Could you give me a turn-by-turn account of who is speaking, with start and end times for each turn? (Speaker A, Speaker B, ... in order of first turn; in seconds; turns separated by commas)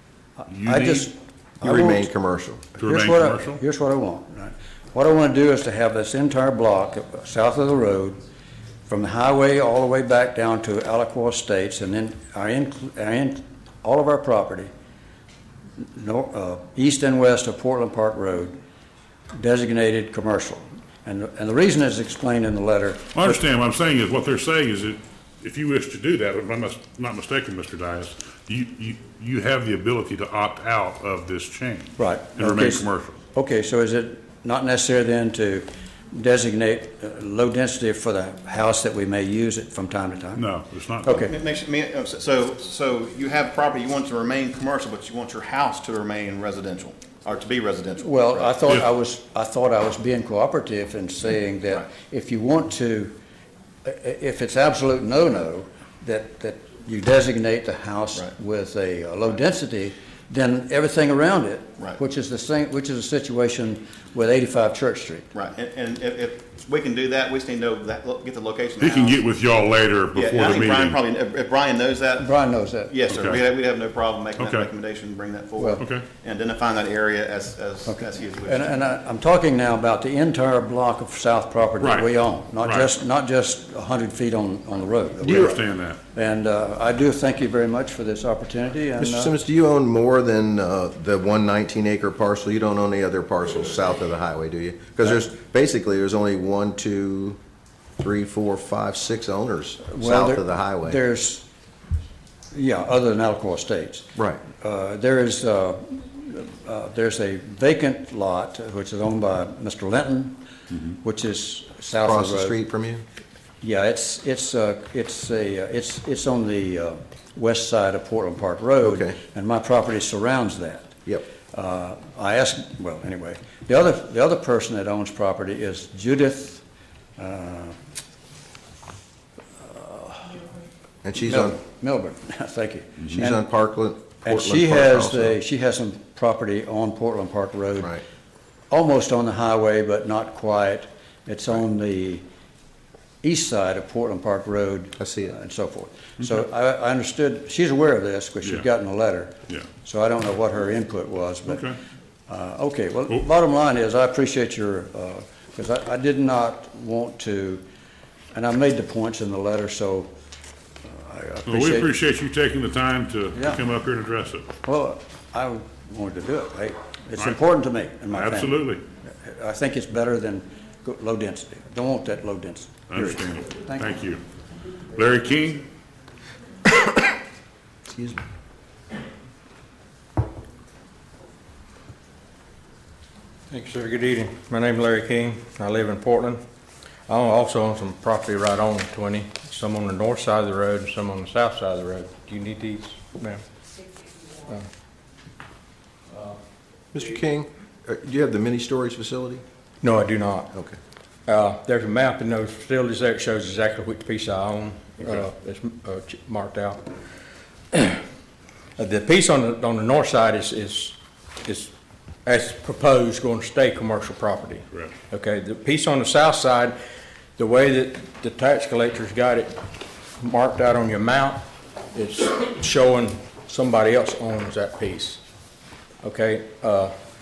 Speaker A: 0.4-2.1, Speaker B: 0.5-1.1, Speaker C: 1.6-2.6, Speaker B: 2.7-3.6, Speaker A: 2.9-8.2, Speaker A: 8.9-14.7, Speaker A: 15.8-18.6, Speaker A: 19.3-23.4, Speaker B: 23.1-33.2, Speaker A: 32.0-40.5, Speaker B: 40.3-41.3, Speaker A: 41.0-41.3, Speaker D: 41.1-48.5, Speaker A: 48.0-53.1, Speaker A: 53.8-65.3, Speaker D: 65.3-69.2, Speaker B: 68.8-71.0, Speaker D: 70.1-78.7, Speaker A: 72.2-73.0, Speaker B: 73.1-73.4, Speaker B: 74.4-74.7, Speaker B: 75.8-76.1, Speaker A: 77.9-89.3, Speaker B: 81.8-82.1, Speaker B: 82.6-82.9, Speaker B: 85.2-86.0, Speaker C: 89.0-97.4, Speaker C: 98.0-101.0, Speaker A: 99.9-101.5, Speaker A: 102.5-112.6, Speaker C: 104.2-104.4, Speaker C: 112.0-113.0, Speaker A: 113.6-121.0, Speaker C: 118.8-119.1, Speaker A: 121.5-126.6, Speaker A: 127.2-127.8, Speaker A: 129.6-130.4, Speaker C: 131.0-131.6, Speaker A: 131.2-133.4, Speaker C: 133.0-135.4, Speaker A: 134.2-138.0, Speaker A: 138.7-142.2, Speaker A: 143.2-151.7, Speaker C: 145.0-145.3, Speaker B: 151.5-151.8, Speaker A: 152.3-157.6, Speaker A: 158.3-160.1, Speaker A: 160.8-161.9, Speaker B: 161.5-164.5, Speaker A: 163.3-163.6, Speaker A: 164.6-173.9, Speaker B: 168.1-168.8, Speaker B: 172.9-174.2, Speaker B: 174.9-175.7, Speaker C: 177.9-178.2, Speaker E: 183.5-186.4, Speaker E: 187.1-193.4, Speaker C: 196.9-199.4, Speaker E: 199.8-200.5, Speaker E: 201.3-206.8, Speaker E: 207.7-208.0, Speaker E: 208.8-211.7, Speaker E: 212.2-216.8, Speaker E: 217.4-219.5, Speaker E: 220.2-221.4, Speaker E: 221.9-225.2, Speaker E: 226.0-226.9